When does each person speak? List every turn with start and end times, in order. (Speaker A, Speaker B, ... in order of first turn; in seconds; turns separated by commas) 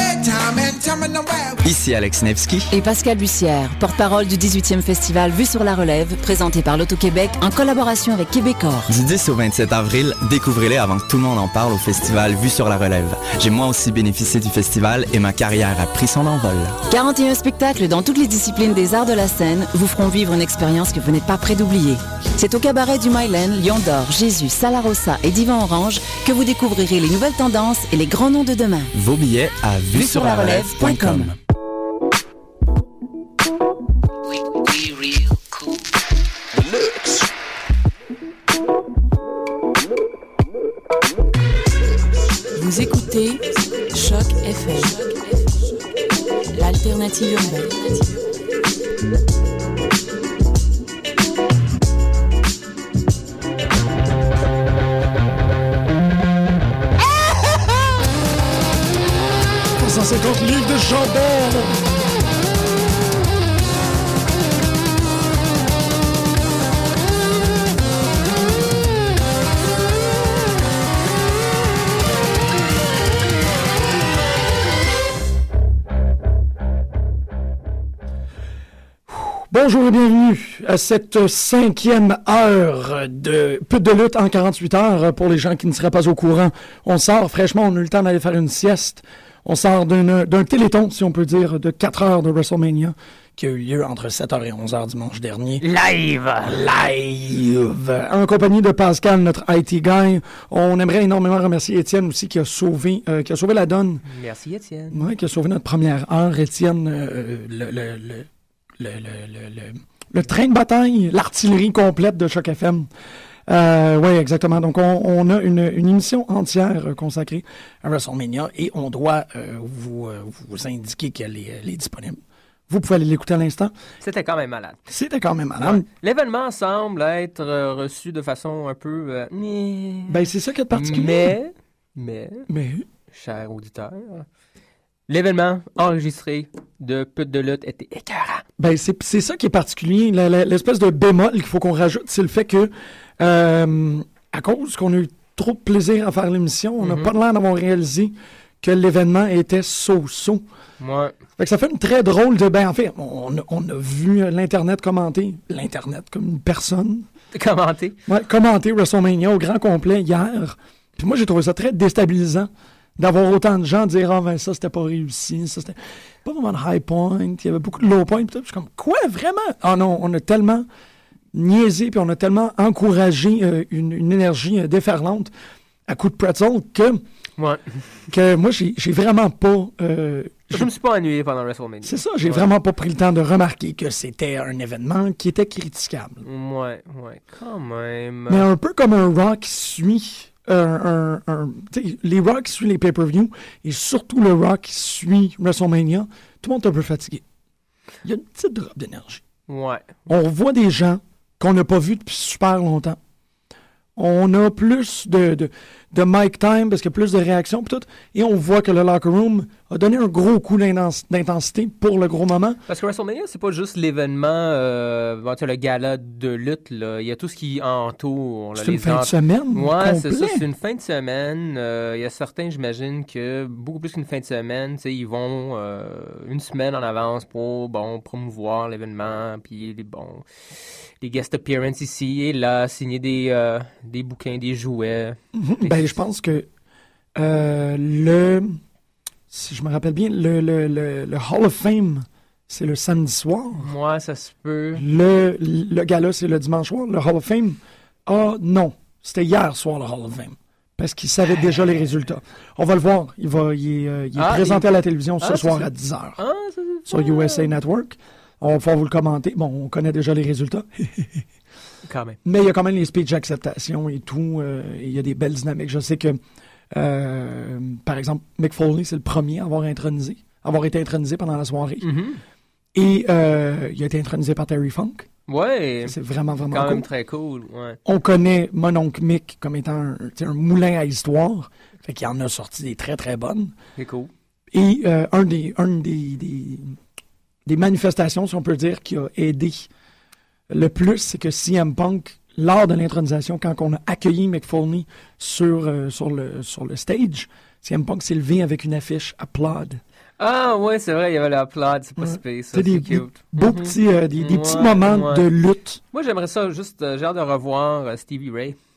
Speaker A: 1.6-2.7, Speaker B: 2.7-8.9, Speaker A: 8.9-16.8, Speaker B: 16.9-28.9, Speaker A: 28.9-31.3, Speaker B: 29.9-31.3, Speaker C: 42.5-45.2, Speaker C: 46.5-48.1, Speaker D: 59.8-61.8, Speaker D: 79.1-95.6, Speaker E: 95.6-96.6, Speaker D: 96.4-104.0, Speaker E: 104.1-105.1, Speaker D: 104.9-112.9, Speaker D: 113.5-123.7, Speaker E: 124.0-124.8, Speaker D: 124.9-125.8, Speaker E: 125.6-132.5, Speaker D: 130.1-131.3, Speaker D: 132.5-132.8, Speaker E: 133.1-134.3, Speaker E: 135.1-138.4, Speaker D: 138.6-150.4, Speaker E: 146.8-147.1, Speaker E: 150.8-151.2, Speaker D: 151.4-157.1, Speaker E: 157.3-158.0, Speaker D: 158.1-170.7, Speaker D: 171.3-175.3, Speaker D: 175.9-177.0, Speaker E: 177.4-177.9, Speaker D: 178.1-180.7, Speaker E: 180.5-182.5, Speaker D: 181.8-186.3, Speaker E: 186.2-188.5, Speaker D: 188.3-197.2, Speaker D: 198.0-199.2, Speaker E: 199.5-200.0, Speaker D: 200.1-203.0, Speaker D: 204.0-212.6, Speaker E: 212.7-230.2, Speaker D: 218.6-220.4, Speaker E: 231.0-236.0, Speaker D: 235.3-236.5, Speaker D: 237.2-238.6, Speaker D: 239.3-243.7, Speaker E: 243.6-244.8, Speaker D: 244.7-256.2, Speaker E: 254.2-254.7, Speaker E: 255.2-257.5, Speaker D: 256.9-261.3, Speaker E: 261.9-262.2, Speaker D: 262.2-271.9, Speaker E: 271.8-272.2, Speaker D: 272.8-275.1, Speaker E: 275.3-275.9, Speaker D: 275.9-276.9, Speaker E: 276.5-277.8, Speaker D: 277.9-283.5, Speaker E: 283.8-284.1, Speaker D: 284.5-286.8, Speaker D: 287.5-289.7, Speaker D: 290.5-299.8, Speaker E: 300.2-305.2, Speaker D: 302.0-305.8, Speaker E: 305.9-308.6